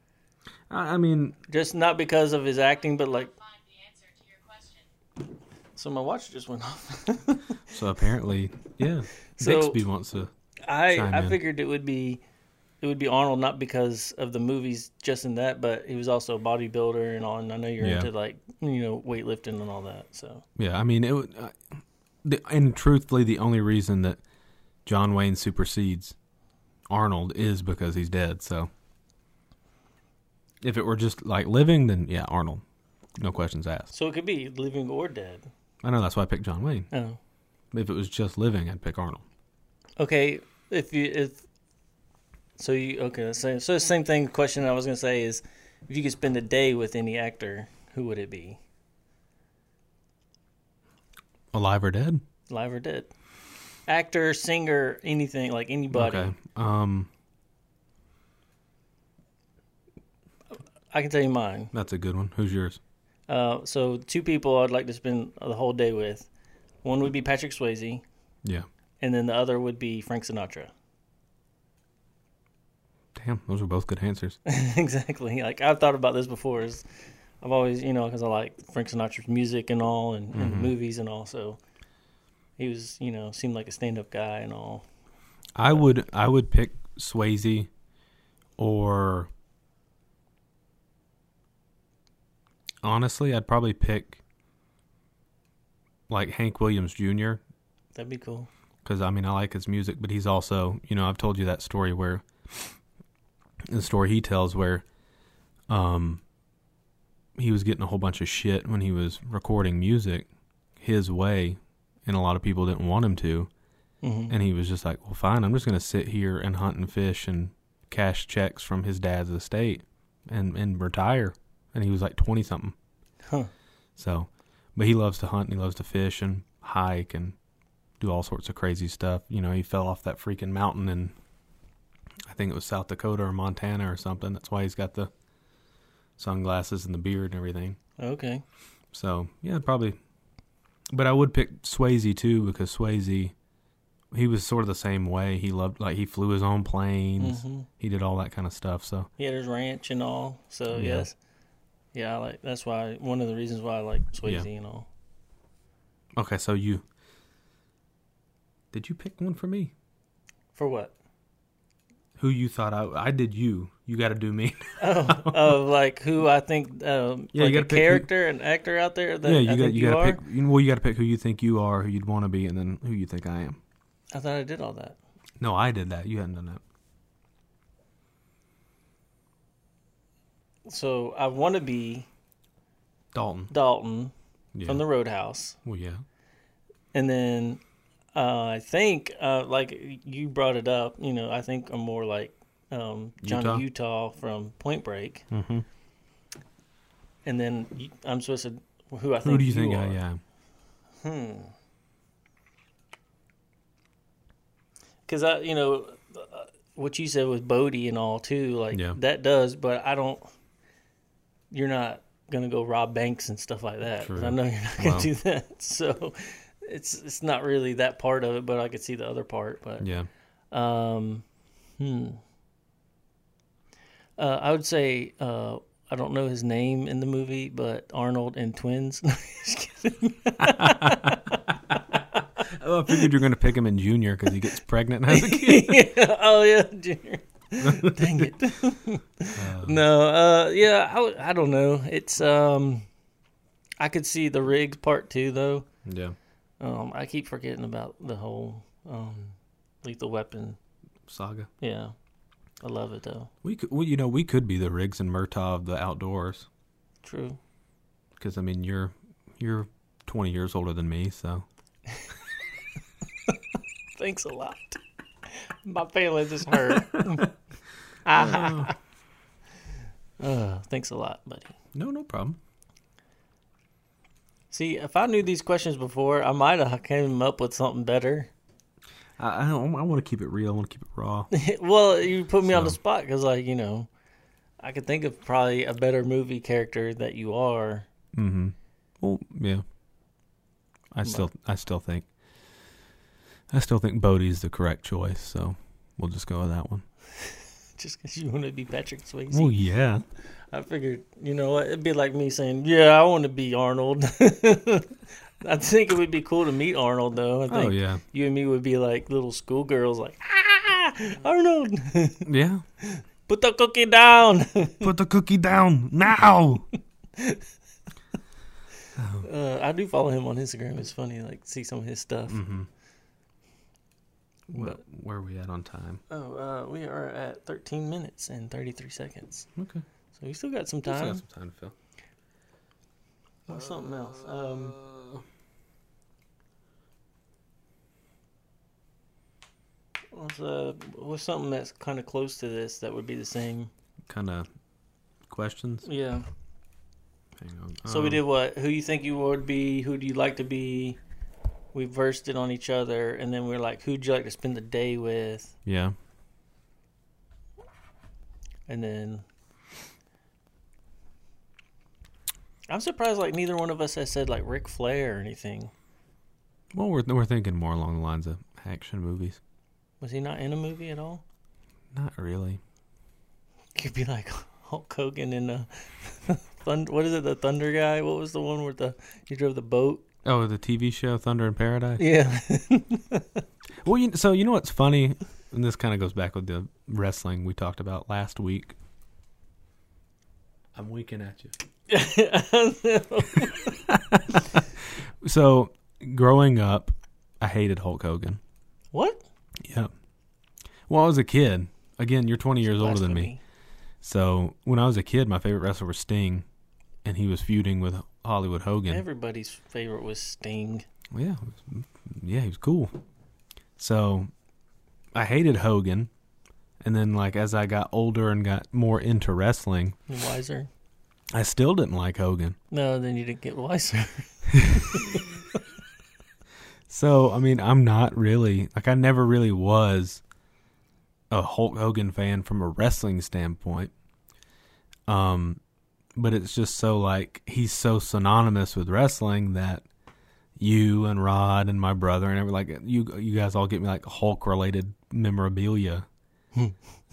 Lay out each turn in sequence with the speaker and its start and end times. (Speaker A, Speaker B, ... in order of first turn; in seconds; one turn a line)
Speaker A: 0.7-1.4
Speaker B: 1.5-3.3
Speaker C: 2.8-4.9
Speaker B: 5.8-7.6
Speaker A: 7.7-10.3
Speaker B: 9.4-9.9
Speaker B: 10.7-12.2
Speaker A: 10.9-11.4
Speaker B: 12.8-20.4
Speaker A: 17.8-18.1
Speaker A: 20.6-24.2
Speaker A: 24.9-26.1
Speaker A: 26.9-28.7
Speaker A: 30.6-32.6
Speaker A: 33.2-33.9
Speaker B: 33.9-35.5
Speaker A: 35.8-36.9
Speaker B: 36.9-37.2
Speaker A: 37.7-39.2
Speaker B: 40.0-41.5
Speaker B: 42.6-48.6
Speaker A: 51.5-52.2
Speaker B: 52.5-53.1
Speaker B: 53.9-56.3
Speaker A: 55.9-57.1
Speaker B: 60.9-61.7
Speaker A: 61.7-62.8
Speaker B: 63.3-66.3
Speaker B: 66.8-68.0
Speaker B: 69.0-70.7
Speaker A: 73.2-74.4
Speaker B: 74.5-76.9
Speaker B: 77.4-81.6
Speaker A: 80.3-80.7
Speaker B: 82.6-84.9
Speaker A: 85.5-87.7
Speaker A: 88.6-89.3
Speaker A: 92.8-94.2
Speaker A: 96.1-97.4
Speaker B: 98.0-98.5
Speaker A: 98.8-102.7
Speaker A: 103.7-104.8
Speaker A: 105.7-106.2
Speaker A: 107.4-110.3
Speaker A: 110.8-113.5
Speaker B: 114.0-114.3
Speaker A: 114.3-122.8
Speaker B: 123.2-123.5
Speaker A: 124.0-127.4
Speaker A: 128.0-131.1
Speaker A: 132.3-135.1
Speaker A: 136.2-137.8
Speaker B: 138.0-138.4
Speaker A: 138.9-140.0
Speaker A: 140.9-143.3
Speaker A: 144.1-149.1
Speaker B: 147.2-147.7
Speaker B: 149.2-151.2
Speaker A: 150.7-151.1
Speaker B: 151.9-154.9
Speaker A: 156.2-156.8
Speaker A: 158.7-159.7
Speaker B: 160.6-160.9
Speaker A: 162.2-165.5
Speaker B: 164.8-170.2
Speaker A: 167.3-168.1
Speaker A: 169.2-173.6
Speaker B: 174.1-175.0
Speaker A: 175.4-176.6
Speaker B: 180.7-182.1
Speaker A: 183.1-183.5
Speaker B: 183.5-184.1
Speaker A: 184.6-184.8
Speaker B: 184.7-185.6
Speaker A: 185.7-186.0
Speaker B: 186.9-187.6
Speaker B: 188.1-195.2
Speaker A: 193.2-193.7
Speaker A: 195.3-195.7
Speaker B: 197.2-200.0
Speaker A: 199.2-200.2
Speaker B: 201.0-201.5
Speaker B: 205.1-210.2
Speaker A: 208.7-209.0
Speaker B: 211.5-219.8
Speaker A: 214.0-215.1
Speaker A: 219.8-220.1
Speaker B: 220.5-221.2
Speaker B: 221.8-222.2
Speaker B: 224.2-231.4
Speaker A: 230.4-231.8
Speaker A: 232.4-235.8
Speaker B: 235.1-242.9
Speaker A: 237.6-238.3
Speaker A: 239.3-239.8
Speaker B: 243.8-245.7
Speaker A: 245.8-246.2
Speaker B: 246.6-250.6
Speaker A: 251.1-251.5
Speaker B: 251.6-251.9
Speaker B: 252.6-253.3
Speaker A: 253.4-256.5
Speaker B: 257.0-257.4
Speaker A: 258.2-261.5
Speaker B: 264.0-267.3
Speaker A: 266.9-267.2
Speaker B: 268.1-268.8
Speaker A: 268.1-268.7
Speaker B: 270.2-271.6
Speaker A: 271.7-272.4
Speaker B: 274.5-278.3
Speaker A: 279.2-281.3
Speaker B: 281.3-283.9
Speaker A: 282.4-282.8
Speaker B: 284.6-287.9
Speaker A: 288.1-289.6
Speaker A: 290.9-292.1
Speaker A: 293.5-296.9
Speaker B: 297.1-299.6
Speaker A: 299.3-300.0
Speaker B: 300.5-312.3
Speaker A: 307.5-308.0
Speaker A: 312.2-312.6
Speaker B: 312.8-314.9
Speaker A: 314.8-316.7
Speaker B: 317.2-317.4
Speaker A: 319.0-319.3
Speaker B: 319.2-322.4
Speaker A: 322.3-322.7
Speaker A: 324.5-326.0
Speaker B: 324.5-324.8
Speaker B: 326.1-329.5
Speaker A: 329.6-329.8
Speaker B: 330.1-331.2
Speaker A: 330.9-331.8
Speaker B: 333.5-334.8
Speaker A: 333.5-335.2
Speaker B: 340.1-343.7
Speaker A: 344.1-344.5
Speaker A: 345.3-345.9
Speaker B: 345.9-346.3
Speaker A: 347.4-348.2
Speaker B: 347.9-351.0
Speaker B: 351.7-355.6
Speaker A: 355.7-355.9
Speaker B: 358.7-359.2
Speaker B: 362.7-365.7
Speaker A: 366.7-369.4
Speaker B: 370.0-371.2
Speaker A: 371.9-372.6
Speaker B: 373.8-380.1
Speaker A: 380.2-382.1
Speaker B: 382.0-383.4
Speaker A: 383.8-388.8
Speaker A: 390.8-391.5
Speaker B: 391.9-393.8
Speaker A: 393.9-394.4
Speaker A: 395.2-398.4
Speaker B: 398.9-399.2
Speaker A: 399.6-399.9
Speaker A: 400.9-403.3
Speaker B: 402.6-403.4
Speaker A: 404.0-406.4
Speaker A: 407.1-409.0
Speaker B: 408.9-410.9
Speaker A: 411.1-413.0
Speaker A: 413.8-414.3
Speaker A: 415.1-416.1
Speaker A: 416.8-420.0
Speaker B: 420.1-420.7
Speaker A: 421.3-422.6
Speaker B: 422.7-425.6
Speaker A: 424.5-425.1
Speaker A: 426.9-430.2
Speaker A: 431.3-433.9
Speaker A: 435.1-435.6
Speaker A: 436.2-439.9
Speaker A: 440.6-446.1